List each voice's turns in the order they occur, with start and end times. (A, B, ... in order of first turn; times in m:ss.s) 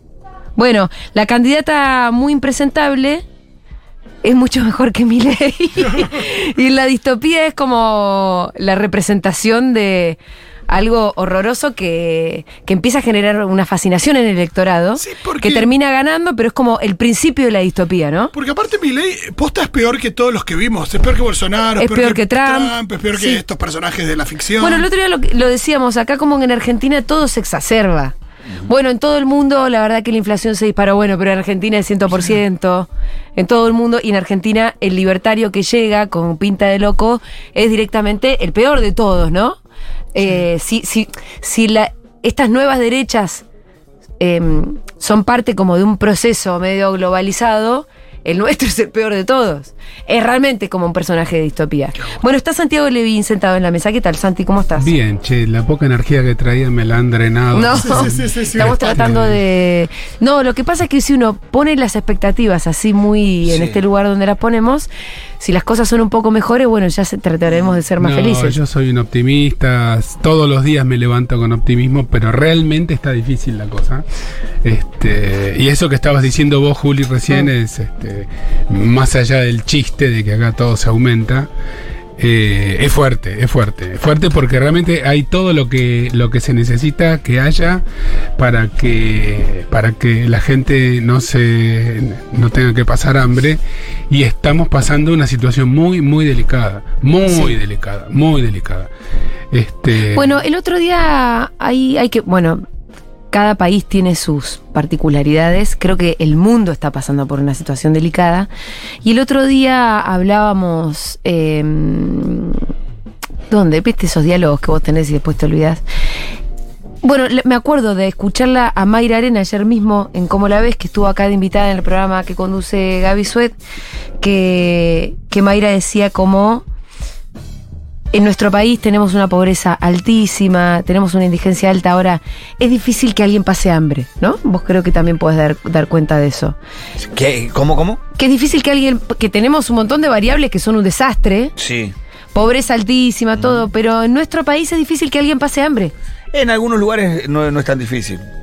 0:00.6-0:03.2 A
0:04.2-0:18.3 A
0:15.0-0:15.7 B
0:18.3-0:24.9 B
0:21.8-0:23.4 A
0:24.6-0:28.1 A
0:28.6-0:39.6 A
0:40.1-0:43.4 A
0:44.2-0:54.9 A
0:54.8-0:59.4 C
0:57.5-1:04.9 A
0:57.7-0:59.1 B
1:03.5-1:03.8 D
1:05.4-1:08.6 A
1:08.0-1:14.0 C
1:14.6-1:21.5 C
1:22.2-1:27.8 C
1:28.4-1:33.6 C
1:34.1-1:38.9 C
1:39.5-1:40.4 C
1:40.1-1:42.6 A
1:43.3-1:48.5 A
1:49.0-1:52.6 A
1:53.5-1:55.8 A
1:57.0-2:03.5 A
2:04.2-2:06.6 A
2:08.1-2:16.6 A
2:17.1-2:18.0 D
2:18.2-2:21.5 A
2:21.6-2:21.9 D
2:22.3-2:25.9 A
2:26.3-2:28.2 D